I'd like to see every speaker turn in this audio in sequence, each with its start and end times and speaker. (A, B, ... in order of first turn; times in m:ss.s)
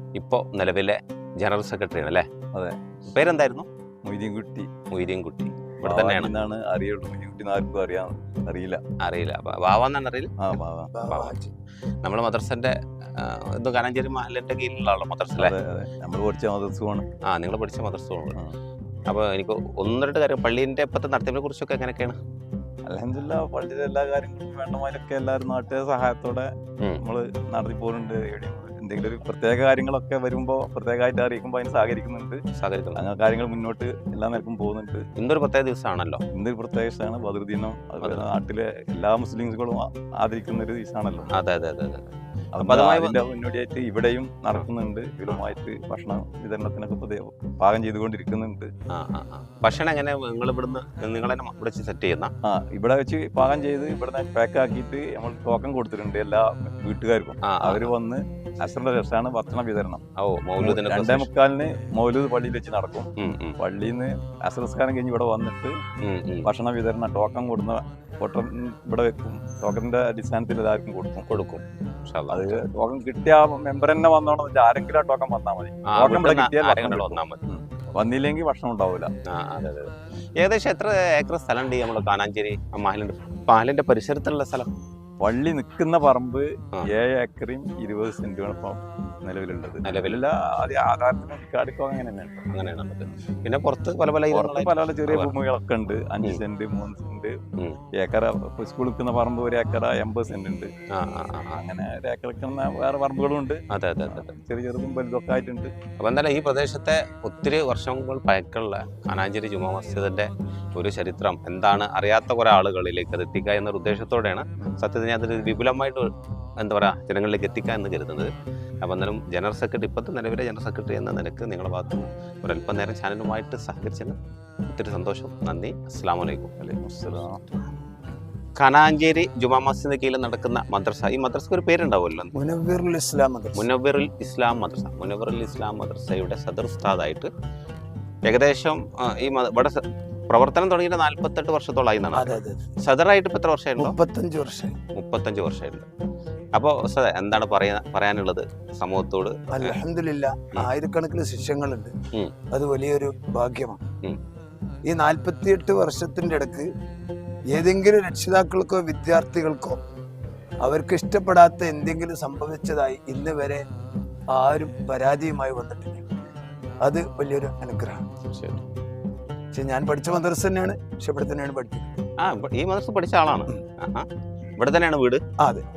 0:00.2-0:02.2 A
0:03.1-0:03.7 A
0:04.0-0:04.7 B
0:04.9-0:06.3 A
0:05.8-0:08.8 B
0:09.0-0:10.3 A
0:10.4-0:10.9 B
0:10.9-0:11.5 C
0:11.1-0:11.4 A
0:12.0-0:15.5 A
0:15.4-0:17.0 B
0:17.3-0:18.4 A
0:19.1-0:22.2 A
0:22.9-0:32.4 B
0:32.6-0:33.0 A
0:33.0-0:35.0 B
0:35.2-0:36.2 A
0:36.3-0:41.3 B
0:41.3-0:42.1 A
0:42.6-0:48.7 B
0:42.6-0:43.2 A
0:48.9-0:52.3 A
0:52.4-1:00.0 B
0:57.4-0:57.9 A
1:00.2-1:01.3 A
1:00.6-1:05.8 B
1:03.2-1:03.5 A
1:06.0-1:06.5 A
1:06.4-1:11.3 B
1:11.3-1:12.6 A
1:12.3-1:19.1 B
1:15.9-1:17.4 A
1:19.3-1:19.9 A
1:20.4-1:24.7 A
1:25.2-1:32.5 B
1:29.9-1:30.2 A
1:32.5-1:35.3 A
1:34.3-1:37.4 B
1:37.9-1:40.7 B
1:40.9-1:41.6 A
1:41.6-1:45.7 B
1:43.7-1:44.3 A
1:46.0-1:58.3 A
1:58.8-2:04.2 A
2:04.7-2:06.5 A
2:06.6-2:07.5 B
2:08.6-2:12.3 A
2:12.3-2:13.7 C
2:13.6-2:17.3 A
2:18.3-2:23.9 A
2:22.1-2:22.6 C
2:23.8-2:24.8 C
2:24.9-2:25.9 A
2:26.6-2:29.8 A
2:29.5-2:31.9 C
2:32.5-2:33.8 C
2:34.9-2:36.7 C
2:37.5-2:39.8 C
2:40.6-2:43.6 C
2:44.3-2:46.0 C
2:46.8-2:48.1 C
2:48.3-2:48.6 A
2:49.5-2:51.9 C
2:52.2-2:54.1 A
2:54.6-2:55.2 A